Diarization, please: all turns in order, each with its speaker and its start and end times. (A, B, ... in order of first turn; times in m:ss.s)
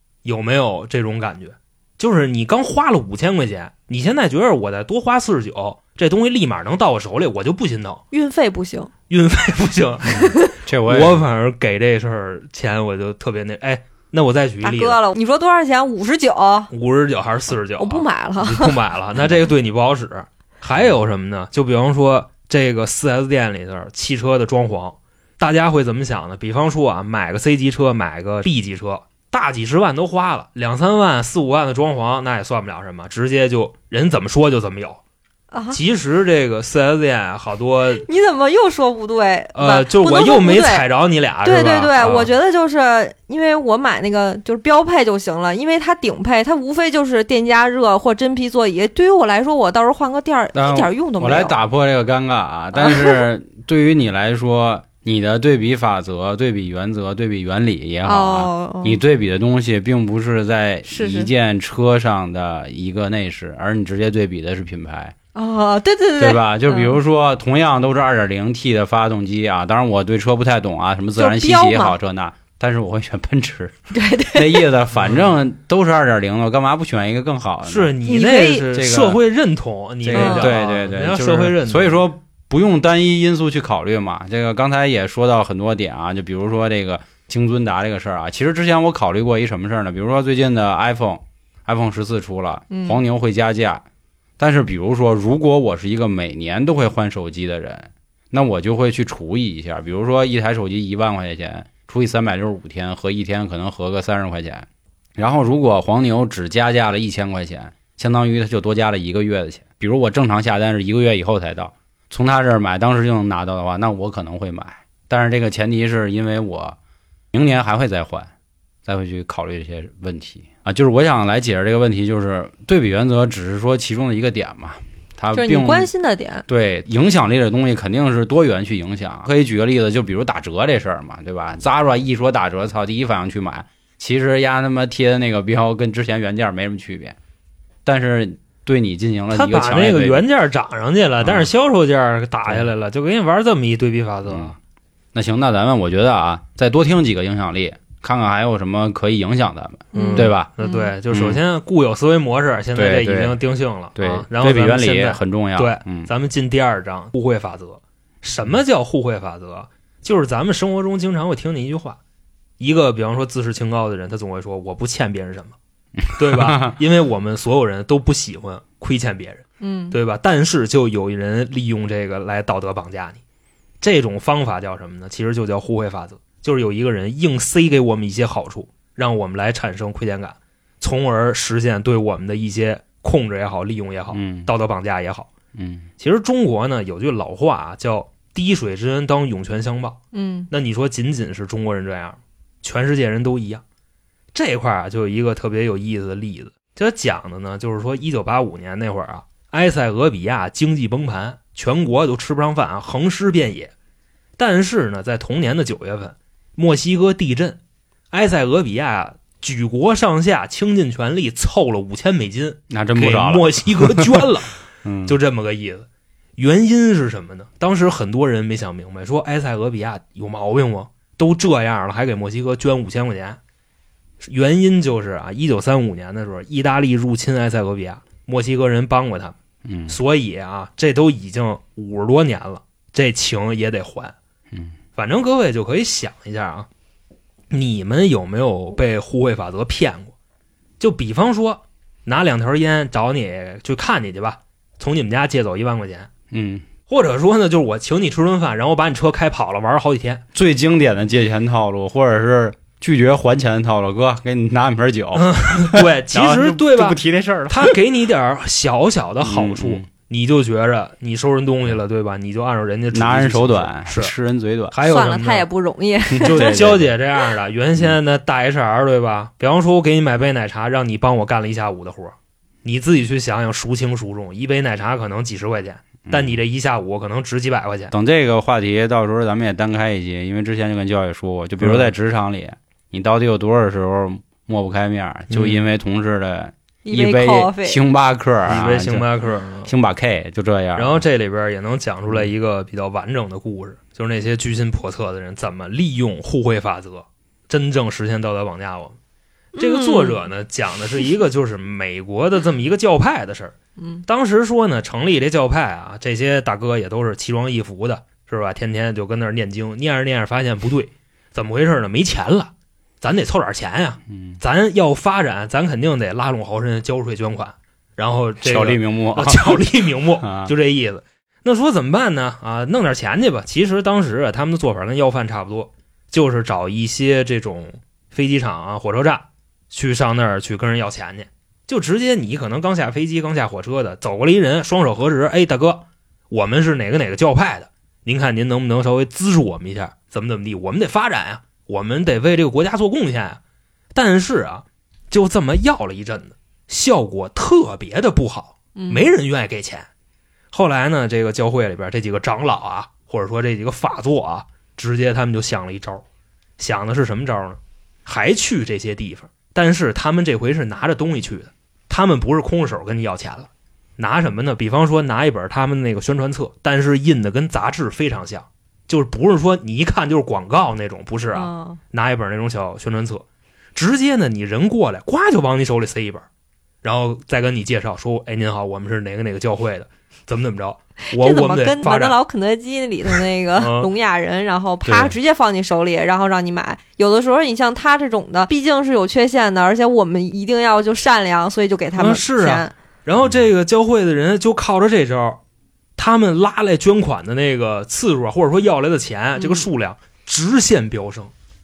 0:00.2-0:08.0 A
0:08.1-0:08.9 B
0:09.1-0:10.3 A
0:10.2-0:10.5 B
0:10.2-0:11.2 C
0:10.8-0:15.0 A
0:14.6-0:16.7 B
0:16.7-0:35.0 A
0:17.8-0:18.8 B
0:35.5-0:35.8 B
0:35.7-0:38.0 A
0:38.0-0:40.8 B
0:39.5-0:42.3 A
0:41.4-0:51.6 B
0:50.5-1:05.1 C
0:52.7-0:53.2 B
0:58.0-0:59.0 B
1:00.8-1:01.3 B
1:05.3-1:07.0 B
1:06.2-1:13.7 C
1:11.2-1:12.0 B
1:13.9-1:14.6 B
1:14.3-1:19.2 C
1:15.0-1:15.4 A
1:17.6-1:22.0 A
1:18.1-1:18.6 B
1:20.0-1:33.8 C
1:20.1-1:20.5 B
1:32.7-1:33.0 B
1:34.4-1:56.8 C
1:57.3-1:58.3 C
1:58.8-2:05.9 C
2:05.3-2:06.4 B
2:06.5-2:17.2 C
2:17.8-2:20.2 C
2:19.3-2:24.6 A
2:21.2-2:21.5 C
2:24.2-2:24.6 C
2:25.1-2:30.5 C
2:29.9-2:30.9 B
2:29.9-2:42.0 A
2:31.1-2:31.4 C
2:32.7-2:33.4 C
2:34.0-2:36.1 C
2:42.6-2:45.6 A
2:46.0-2:46.7 C
2:46.2-2:53.2 A
2:49.6-2:50.0 B
2:53.8-3:05.3 A
3:04.1-3:04.5 C
3:05.5-3:05.9 C
3:06.0-3:10.0 A
3:10.1-3:10.5 B
3:10.5-3:13.6 A
3:14.3-3:23.7 A
3:24.4-3:27.6 A
3:28.1-3:35.8 A
3:32.7-3:34.2 C
3:34.8-3:35.2 C
3:36.4-3:43.4 A
3:44.2-3:49.3 A
3:49.6-3:50.0 C
3:49.9-3:54.1 A
3:55.0-3:56.7 A
3:57.5-4:00.1 A
4:00.8-4:06.1 A
4:06.3-4:06.7 C
4:06.9-4:10.2 A
4:10.3-4:17.7 C
4:15.1-4:17.0 A
4:17.5-4:24.1 A
4:19.2-4:19.9 C
4:22.9-4:24.8 C
4:24.7-4:25.5 A
4:24.8-4:26.6 B
4:26.1-4:26.9 C
4:26.2-4:37.9 A
4:36.0-4:36.4 C
4:37.9-4:49.1 C
4:41.6-4:41.9 A
4:45.3-4:45.7 A
4:46.8-4:47.8 B
4:48.4-4:49.7 A
4:49.6-4:51.0 C
4:50.7-4:59.0 A
4:59.6-5:00.2 B
4:59.6-5:03.5 A
5:04.1-5:43.4 A
5:14.1-5:14.4 C
5:18.4-5:19.6 C
5:20.2-5:20.5 C
5:43.9-5:49.9 A
5:48.8-5:49.1 B
5:50.5-5:56.0 A
5:56.6-6:16.2 A
6:11.3-6:11.8 B
6:16.8-6:22.2 A
6:21.1-6:32.7 B
6:23.6-6:23.9 A
6:24.8-6:25.1 C
6:32.0-6:35.4 A
6:36.0-6:41.3 A
6:39.4-6:39.7 B